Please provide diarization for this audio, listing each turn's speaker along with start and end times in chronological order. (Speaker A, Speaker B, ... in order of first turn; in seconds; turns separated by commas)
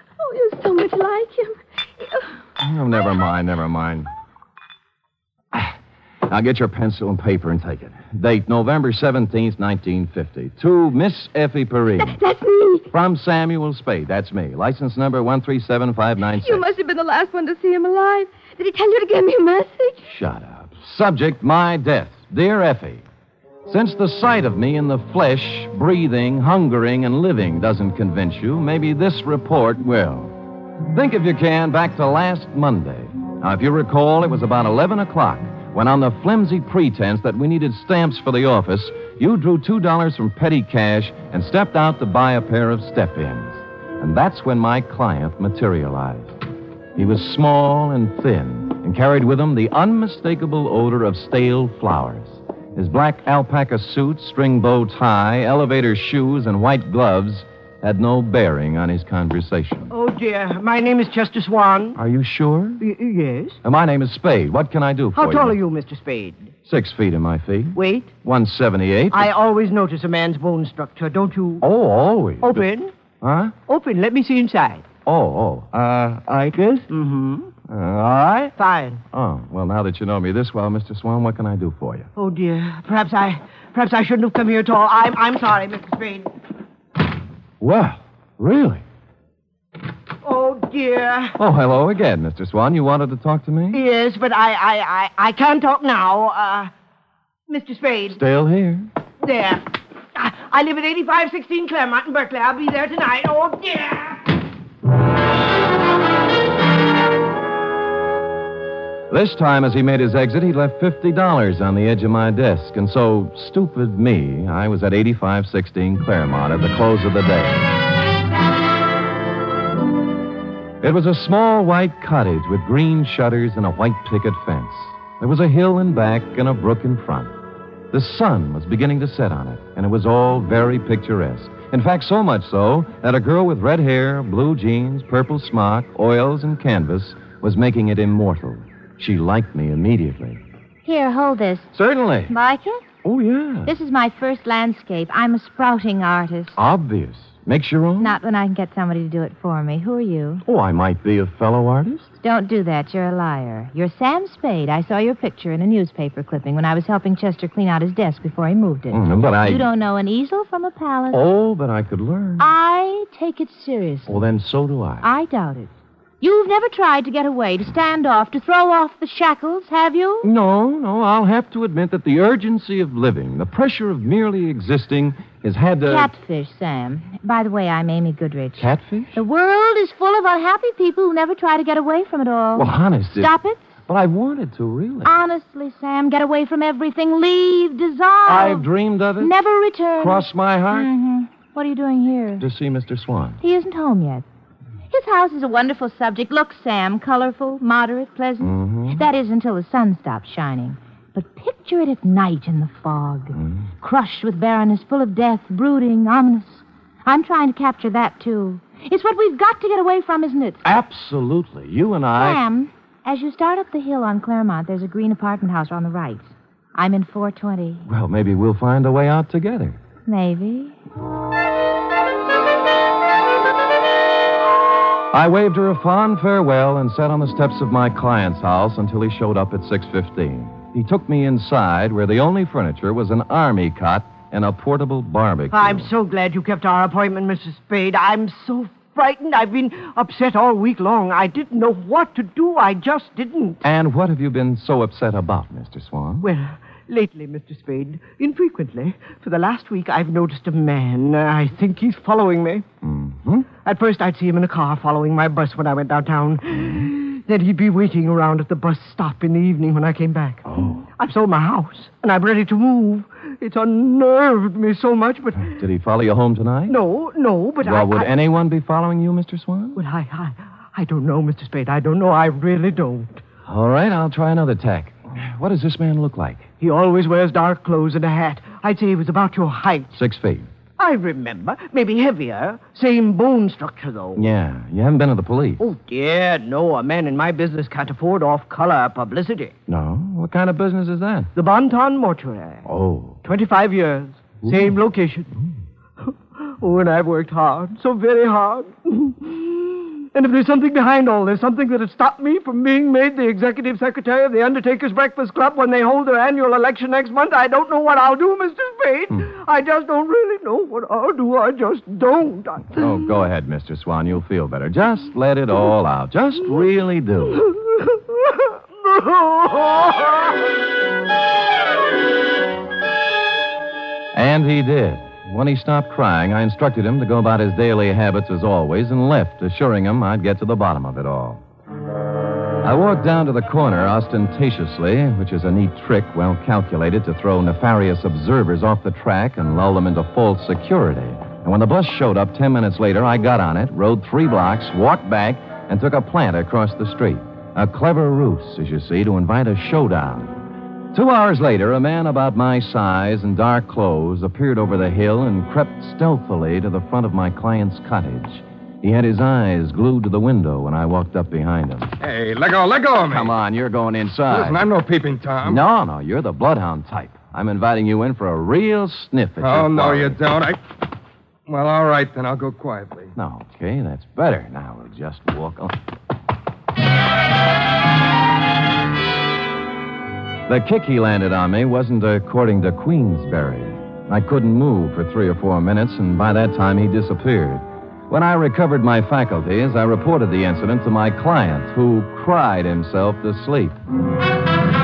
Speaker A: 0.2-2.4, Speaker B: 2.6-4.1, Speaker B: 5.5-5.8, Speaker B: 6.3-12.2, Speaker A: 11.9-12.9, Speaker B: 12.9-16.7, Speaker A: 16.2-20.1, Speaker B: 20.1-23.0, Speaker B: 23.7-46.4, Speaker B: 47.0-59.9, Speaker C: 59.9-62.0, Speaker B: 62.0-62.8, Speaker C: 62.8-63.6, Speaker B: 63.6-65.6, Speaker C: 65.1-66.5, Speaker B: 66.7-69.3, Speaker C: 67.8-68.1, Speaker C: 69.1-71.6, Speaker B: 71.6-72.7, Speaker C: 72.4-72.9, Speaker B: 73.2-73.5, Speaker C: 73.7-74.9, Speaker B: 75.0-76.9, Speaker C: 76.8-77.5, Speaker B: 77.7-78.5, Speaker C: 78.5-79.0, Speaker B: 79.1-82.1, Speaker C: 82.2-86.3, Speaker B: 87.6-88.8, Speaker C: 90.2-91.4, Speaker B: 91.4-93.8, Speaker C: 93.7-96.7, Speaker C: 97.5-98.2, Speaker B: 98.1-98.9, Speaker C: 99.2-104.3, Speaker B: 109.1-117.6, Speaker B: 120.8-127.3, Speaker B: 127.9-140.4, Speaker D: 140.8-141.7, Speaker B: 141.7-142.3, Speaker D: 142.3-142.8, Speaker B: 143.0-143.7, Speaker D: 143.7-146.6, Speaker B: 146.6-148.2, Speaker D: 148.0-150.4, Speaker B: 150.5-152.1, Speaker D: 152.2-161.2, Speaker B: 158.9-159.7, Speaker B: 161.1-162.5, Speaker D: 162.4-164.2, Speaker B: 164.1-165.1, Speaker D: 165.0-170.3, Speaker B: 170.2-176.1, Speaker D: 175.9-183.7, Speaker B: 178.6-179.1, Speaker B: 182.5-183.3, Speaker B: 183.9-185.1, Speaker D: 185.0-188.7, Speaker B: 188.2-189.3, Speaker D: 189.2-192.4, Speaker B: 190.0-190.9, Speaker B: 192.4-193.4, Speaker D: 193.4-194.2, Speaker D: 194.9-210.6, Speaker B: 198.4-199.1, Speaker B: 203.3-203.7, Speaker B: 210.6-212.4, Speaker D: 212.2-217.9, Speaker B: 217.8-219.8, Speaker D: 220.1-220.8, Speaker B: 225.1-235.9, Speaker C: 235.5-243.6, Speaker B: 243.6-246.3, Speaker C: 246.2-252.7, Speaker B: 252.8-253.5, Speaker C: 253.6-265.5, Speaker B: 256.5-256.9, Speaker B: 260.5-260.8, Speaker B: 265.5-266.8, Speaker C: 266.7-268.1, Speaker B: 267.6-269.8, Speaker C: 269.8-273.2, Speaker B: 273.4-276.5, Speaker C: 276.6-279.9, Speaker B: 279.9-280.5, Speaker C: 280.8-284.2, Speaker B: 284.1-285.6, Speaker C: 285.6-289.5, Speaker B: 289.7-291.3, Speaker C: 291.4-292.6, Speaker B: 292.6-293.2, Speaker C: 293.2-295.3, Speaker C: 296.1-312.9, Speaker B: 312.7-317.5, Speaker C: 318.3-320.1, Speaker B: 324.1-331.4, Speaker B: 332.6-350.4, Speaker B: 350.9-361.9, Speaker E: 362.0-363.3, Speaker B: 363.1-364.7, Speaker E: 364.3-365.6, Speaker B: 365.4-370.2, Speaker E: 369.4-370.6, Speaker E: 371.5-373.1, Speaker B: 373.1-375.8, Speaker B: 380.5-393.8